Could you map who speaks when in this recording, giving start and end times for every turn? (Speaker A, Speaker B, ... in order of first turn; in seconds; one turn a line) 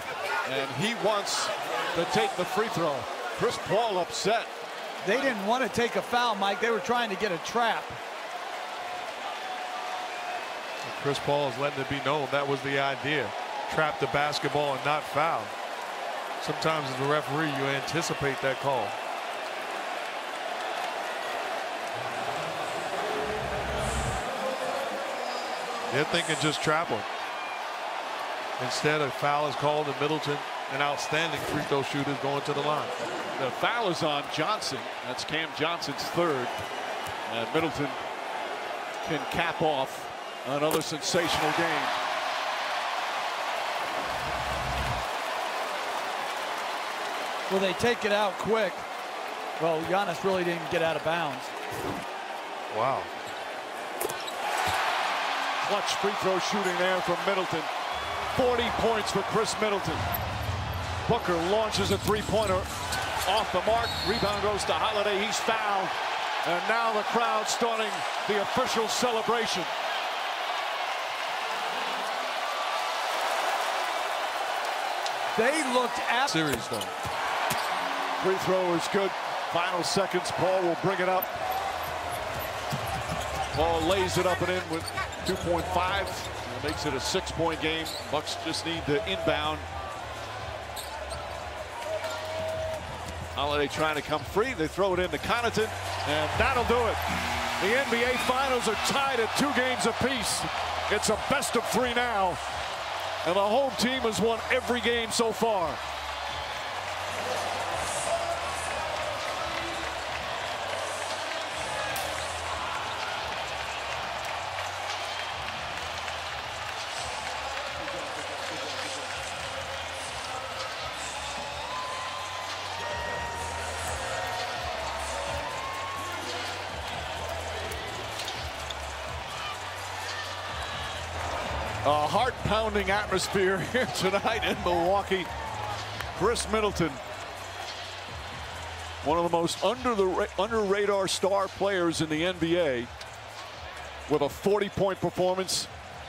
Speaker A: 0.4-4.5
Speaker B: 5.0-8.0
Speaker C: 10.8-15.5
Speaker C: 16.4-18.9
Speaker C: 25.9-27.1
Speaker C: 28.6-32.9
Speaker A: 33.4-36.5
Speaker A: 37.3-38.0
Speaker A: 39.0-42.0
Speaker B: 47.5-48.9
Speaker B: 49.6-51.5
Speaker C: 52.7-53.1
Speaker A: 55.6-57.7
Speaker A: 58.3-60.0
Speaker A: 61.0-62.7
Speaker A: 63.2-69.7
Speaker B: 75.3-76.3
Speaker C: 76.3-76.9
Speaker A: 78.2-81.3
Speaker A: 83.5-89.7
Speaker A: 93.3-97.0
Speaker A: 97.6-102.4
Speaker A: 103.2-105.8
Speaker A: 131.8-135.3
Speaker A: 136.1-137.0
Speaker A: 139.0-142.9
Speaker A: 144.1-145.7